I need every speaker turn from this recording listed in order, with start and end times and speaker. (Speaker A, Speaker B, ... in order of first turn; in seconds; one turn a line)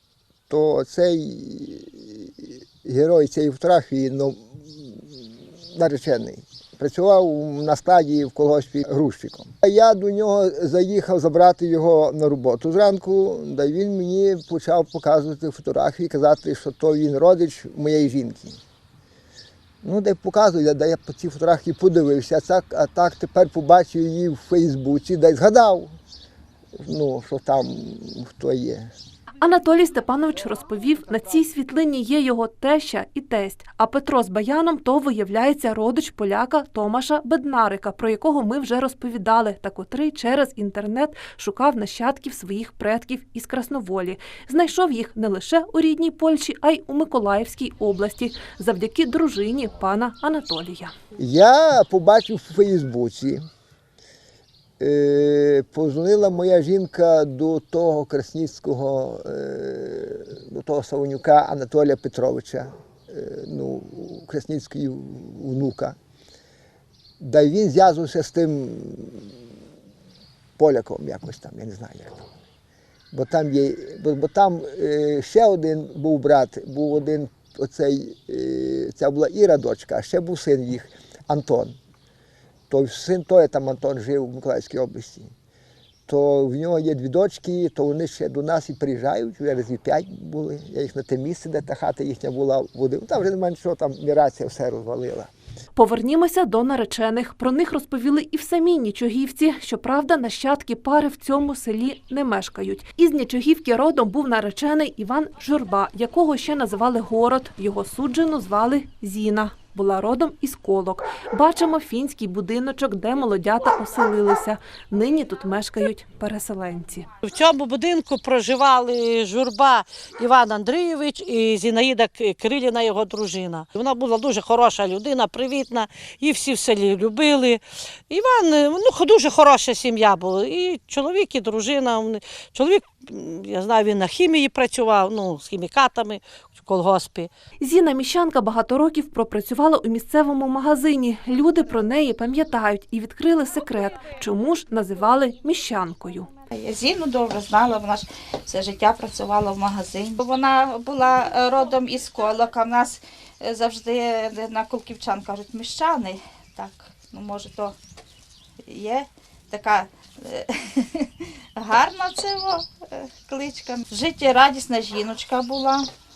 Speaker A: 0.5-18.6
Speaker A: 19.8-25.9
Speaker A: 26.8-28.9
Speaker B: 29.4-50.9
Speaker A: 51.2-53.4
Speaker A: 54.8-66.0
Speaker A: 67.2-69.4
Speaker A: 70.6-72.3
Speaker A: 73.1-81.8
Speaker A: 82.7-85.3
Speaker A: 86.1-95.3
Speaker B: 95.8-117.0
Speaker C: 117.2-137.3
Speaker B: 137.6-146.3
Speaker D: 146.5-157.8
Speaker D: 158.7-165.9